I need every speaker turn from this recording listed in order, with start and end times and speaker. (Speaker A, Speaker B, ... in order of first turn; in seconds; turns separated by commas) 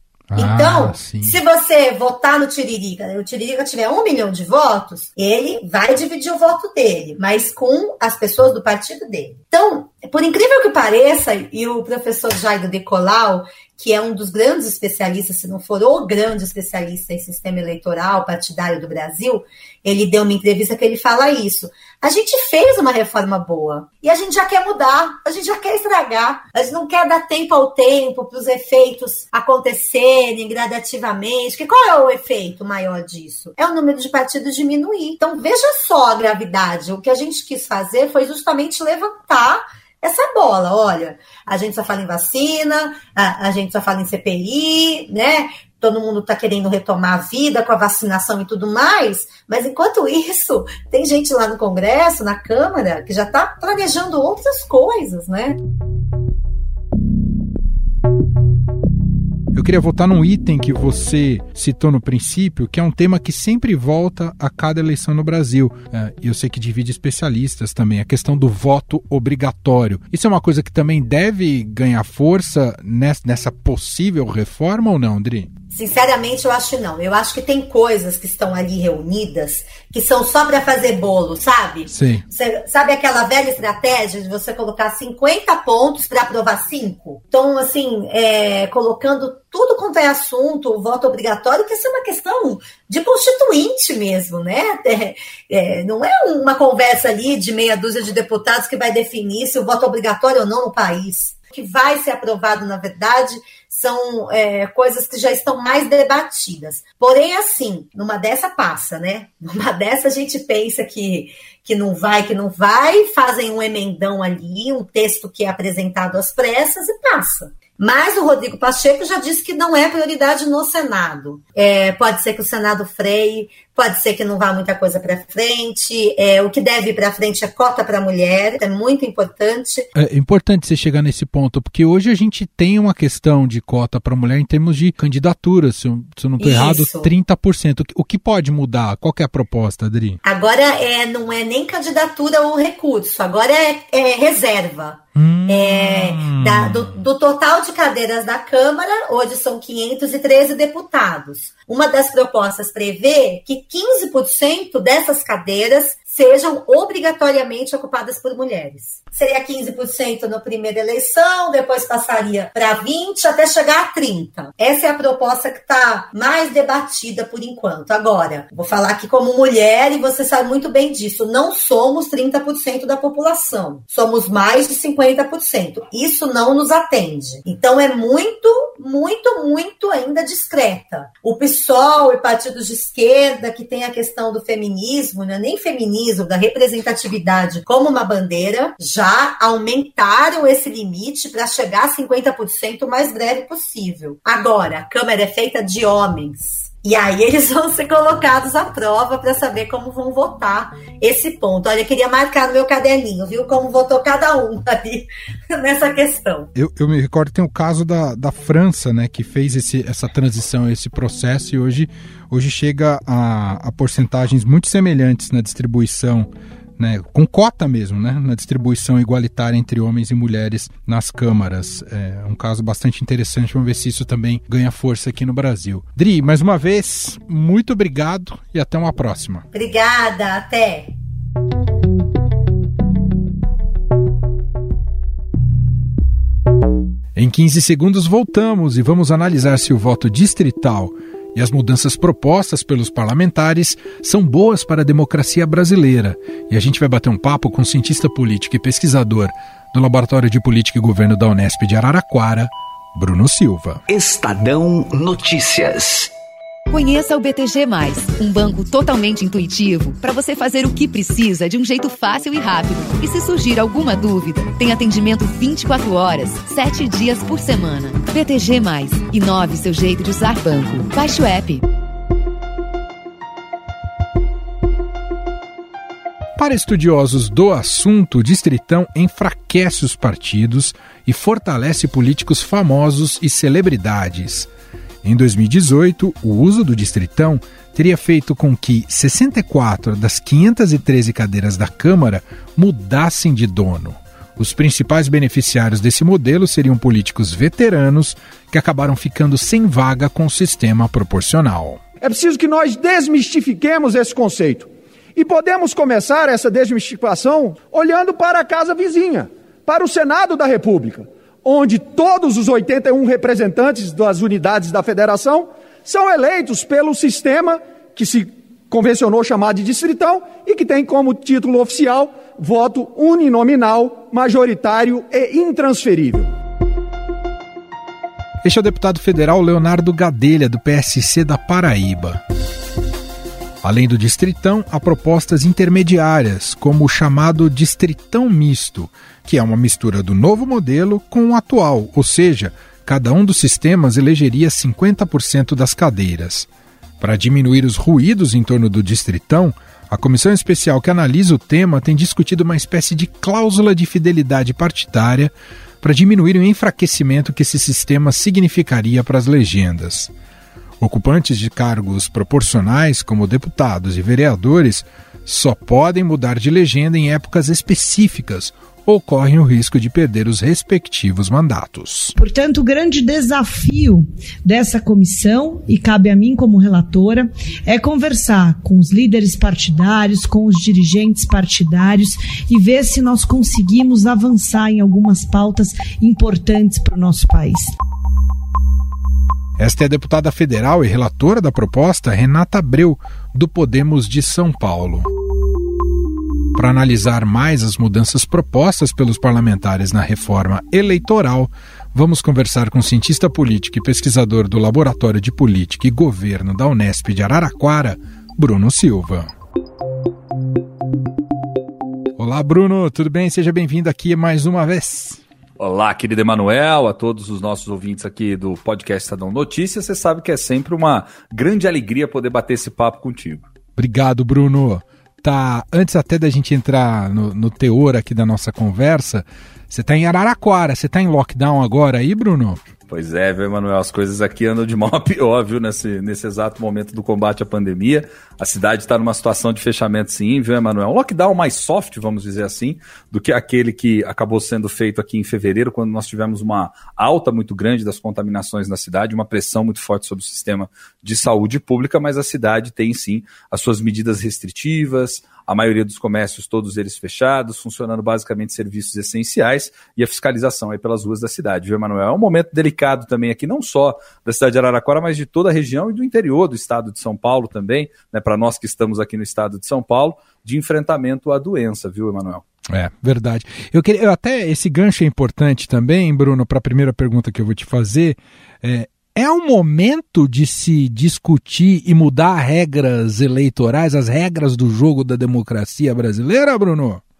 Speaker A: 0.3-1.4, Speaker B: 0.3-55.6, Speaker A: 59.5-75.5, Speaker B: 75.7-129.9, Speaker A: 81.9-82.2, Speaker A: 129.9-140.2, Speaker B: 136.4-137.1, Speaker B: 140.2-206.5, Speaker A: 145.2-147.0, Speaker A: 206.5-229.4, Speaker B: 229.5-230.9, Speaker A: 237.1-253.8, Speaker C: 253.9-256.1, Speaker D: 256.7-271.6, Speaker A: 276.4-284.5, Speaker A: 285.0-301.8, Speaker E: 302.0-326.3, Speaker A: 328.4-332.2, Speaker A: 333.6-346.5, Speaker A: 347.0-360.1, Speaker A: 360.8-372.1, Speaker F: 372.1-387.7, Speaker A: 389.6-395.1, Speaker A: 396.5-409.3, Speaker A: 412.2-415.2, Speaker G: 415.6-423.4, Speaker A: 423.8-432.6, Speaker G: 432.9-472.4, Speaker A: 472.7-487.0